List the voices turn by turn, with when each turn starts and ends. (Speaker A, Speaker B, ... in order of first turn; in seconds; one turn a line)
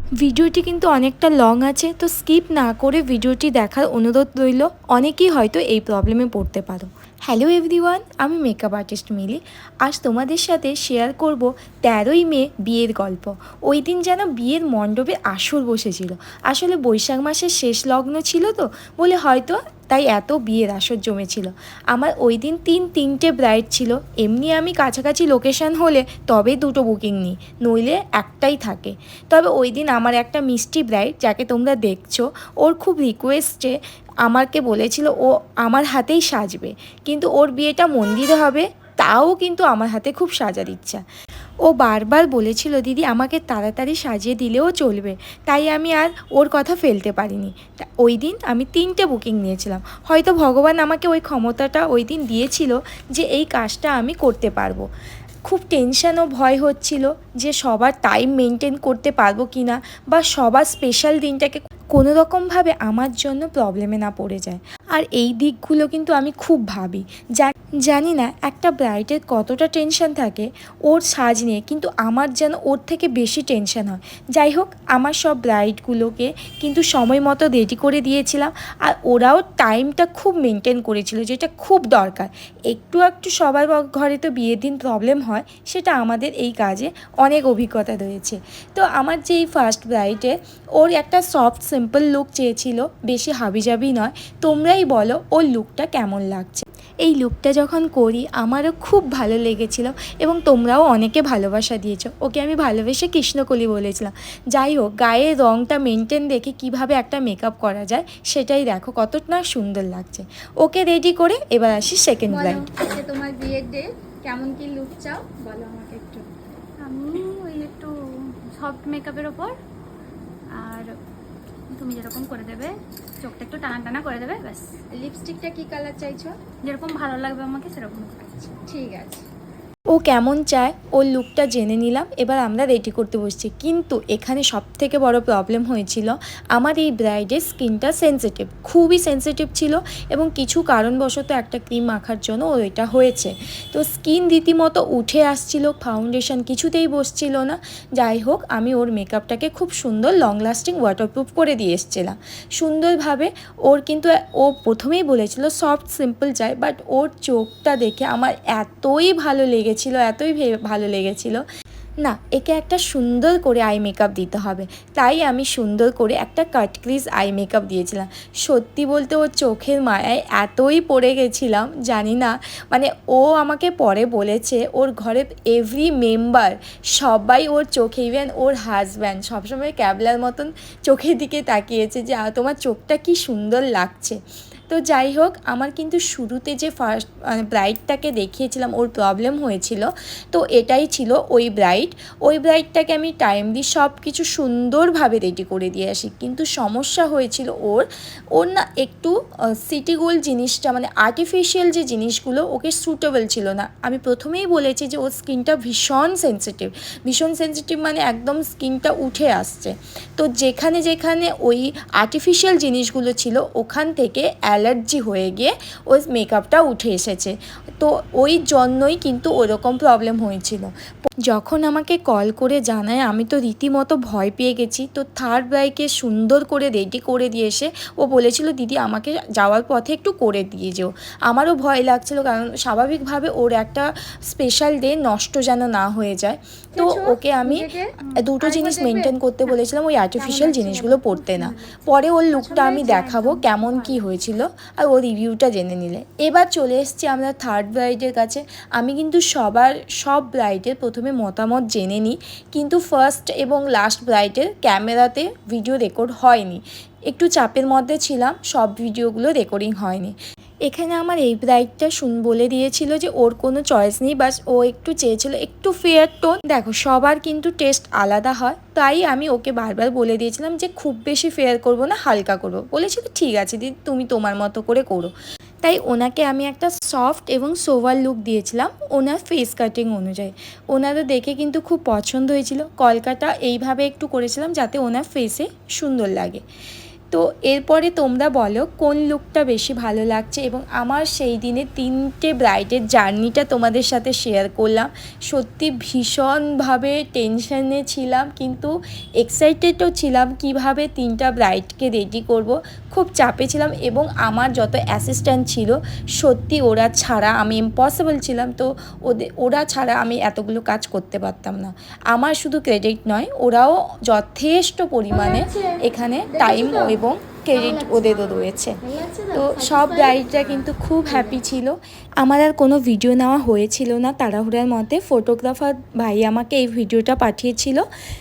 Speaker A: 0.2-41.0
Speaker A: 41.6-54.8
Speaker A: 55.5-112.6
Speaker B: 112.3-116.3
Speaker C: 116.8-117.9
Speaker C: 118.5-119.5
Speaker C: 120.6-120.9
Speaker C: 121.7-124.7
Speaker B: 124.9-126.4
Speaker C: 126.6-128.6
Speaker B: 128.7-129.2
Speaker A: 129.9-161.4
Speaker A: 162.0-184.2
Speaker A: 184.7-220.7
Speaker A: 221.2-260.1
Speaker B: 236.8-239.1
Speaker B: 240.2-241.1
Speaker C: 241.3-241.8
Speaker C: 242.4-243.9
Speaker B: 242.6-243.0
Speaker A: 260.7-275.1
Speaker A: 275.6-286.4
Speaker A: 287.1-318.8
Speaker B: 315.1-317.0
Speaker B: 317.5-321.4
Speaker A: 319.3-327.9